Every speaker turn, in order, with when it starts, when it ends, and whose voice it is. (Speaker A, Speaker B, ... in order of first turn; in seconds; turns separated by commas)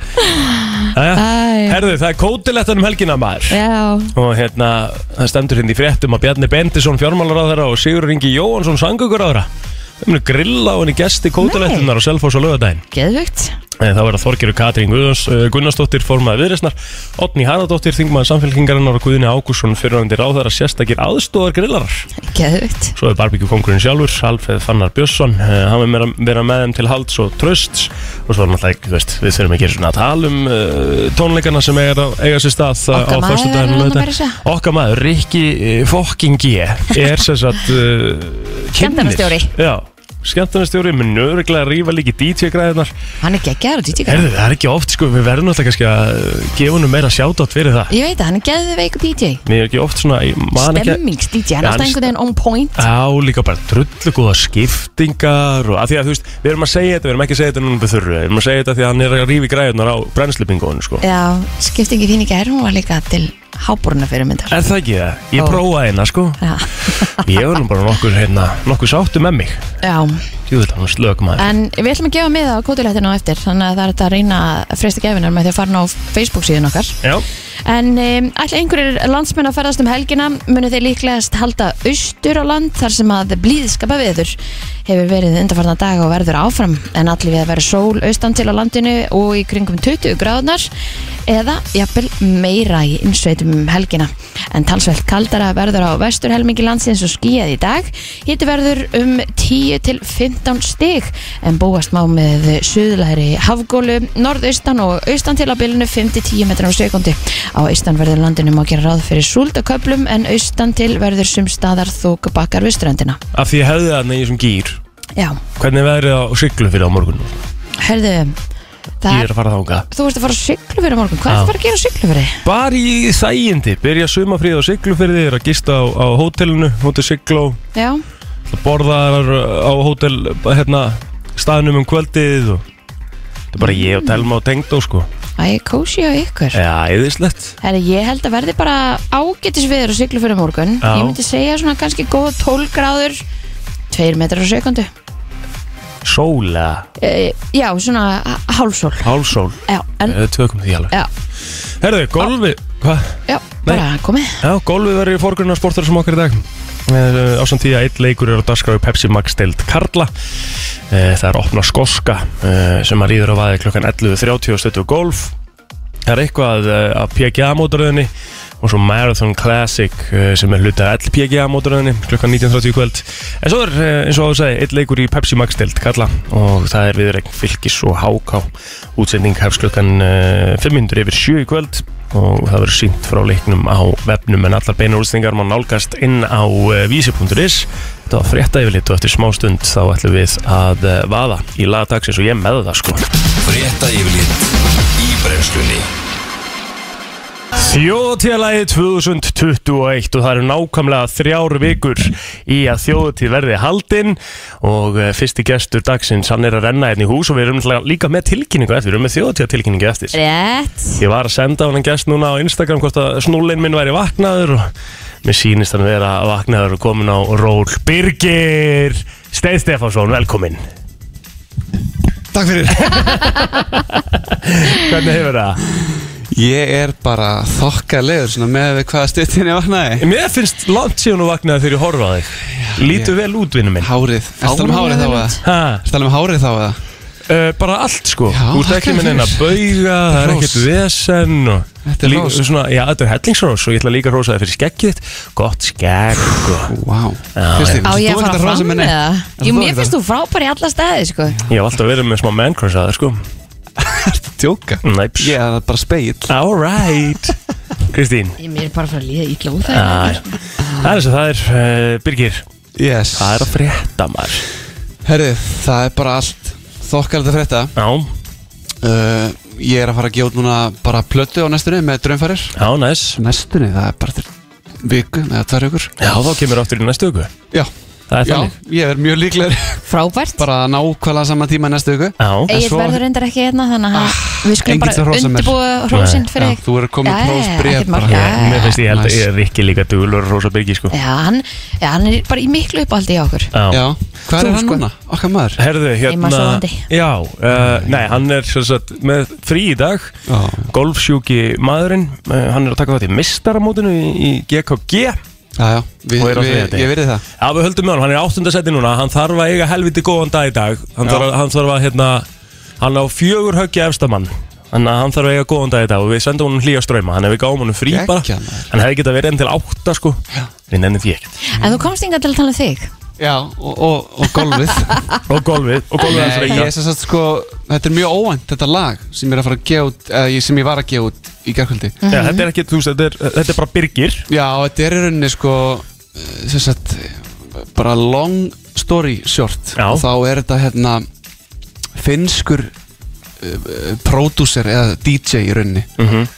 Speaker A: 0.2-1.9, Speaker B: 0.9-3.6, Speaker A: 3.5-4.1, Speaker B: 4.1-12.8, Speaker A: 11.4-11.9, Speaker A: 12.9-13.5, Speaker B: 13.8-22.1, Speaker A: 22.2-22.9, Speaker B: 22.9-42.9, Speaker A: 32.9-34.4, Speaker A: 38.8-39.5, Speaker A: 43.2-44.3, Speaker B: 44.0-47.9, Speaker A: 47.9-49.4, Speaker B: 49.5-51.0, Speaker A: 50.5-52.9, Speaker B: 51.6-52.1, Speaker B: 52.8-61.0, Speaker A: 61.0-64.6, Speaker B: 64.5-69.6, Speaker A: 65.3-65.6, Speaker A: 66.4-67.3, Speaker A: 69.8-70.2, Speaker B: 70.5-71.5, Speaker A: 71.4-77.0, Speaker A: 77.6-90.7, Speaker A: 91.3-113.2, Speaker B: 113.3-114.8, Speaker A: 115.2-115.4, Speaker B: 115.6-117.4, Speaker A: 117.8-118.3, Speaker A: 119.0-119.3, Speaker B: 119.1-119.8, Speaker A: 119.9-122.4, Speaker B: 121.3-121.5, Speaker B: 122.4-127.6, Speaker A: 127.7-128.0, Speaker B: 128.5-132.6, Speaker B: 133.5-135.1, Speaker A: 133.6-134.2, Speaker A: 135.4-136.6, Speaker B: 136.5-137.5, Speaker A: 137.6-143.2, Speaker B: 140.8-141.2, Speaker A: 143.9-144.9, Speaker B: 146.0-146.9, Speaker A: 147.0-149.1, Speaker B: 149.0-150.9, Speaker A: 149.6-150.2, Speaker B: 151.8-153.8, Speaker A: 153.3-154.4, Speaker B: 154.4-160.1, Speaker B: 160.9-165.3, Speaker B: 166.1-193.1, Speaker C: 193.4-195.9, Speaker B: 197.5-210.2, Speaker A: 210.1-211.0, Speaker B: 211.0-214.7, Speaker B: 215.2-220.6, Speaker D: 222.3-223.2, Speaker B: 222.8-225.6, Speaker D: 226.3-230.1, Speaker B: 230.0-233.9, Speaker D: 232.5-233.1, Speaker D: 233.8-236.8, Speaker A: 234.4-235.4, Speaker B: 235.4-235.8, Speaker B: 237.3-246.7, Speaker D: 238.3-240.7, Speaker D: 241.8-242.4, Speaker D: 246.6-249.9, Speaker B: 247.3-248.0, Speaker A: 247.8-251.3, Speaker B: 251.5-253.2, Speaker D: 253.8-256.3, Speaker B: 254.8-255.4, Speaker B: 256.3-257.4, Speaker B: 257.9-258.4, Speaker A: 258.4-260.3, Speaker B: 259.7-262.4, Speaker D: 262.8-263.5, Speaker B: 263.1-264.4, Speaker D: 265.0-267.7, Speaker B: 267.8-268.1, Speaker D: 268.8-272.6, Speaker B: 272.6-273.2, Speaker D: 273.1-274.3, Speaker D: 274.8-275.9, Speaker B: 276.0-277.3, Speaker B: 278.1-278.5, Speaker D: 278.2-279.8, Speaker A: 279.9-280.4, Speaker D: 280.4-283.0, Speaker B: 282.2-282.5, Speaker A: 282.5-288.8, Speaker D: 283.9-285.6, Speaker B: 285.9-286.5, Speaker D: 286.4-289.2, Speaker B: 288.1-290.9, Speaker A: 290.9-293.5, Speaker B: 293.5-293.8, Speaker D: 293.7-295.6, Speaker A: 294.4-294.8, Speaker B: 295.6-300.2, Speaker A: 296.1-296.9, Speaker D: 300.3-300.7, Speaker B: 300.7-305.2, Speaker D: 305.6-307.2, Speaker B: 306.2-312.3, Speaker D: 311.0-311.3, Speaker B: 312.8-321.3, Speaker D: 317.9-318.7, Speaker A: 321.4-322.9, Speaker D: 323.2-325.0, Speaker B: 325.3-326.7, Speaker D: 326.1-332.0, Speaker A: 332.0-332.4, Speaker B: 332.1-334.2, Speaker D: 334.3-341.0, Speaker B: 339.8-340.0, Speaker D: 342.0-342.7, Speaker D: 343.4-345.9, Speaker B: 346.0-346.3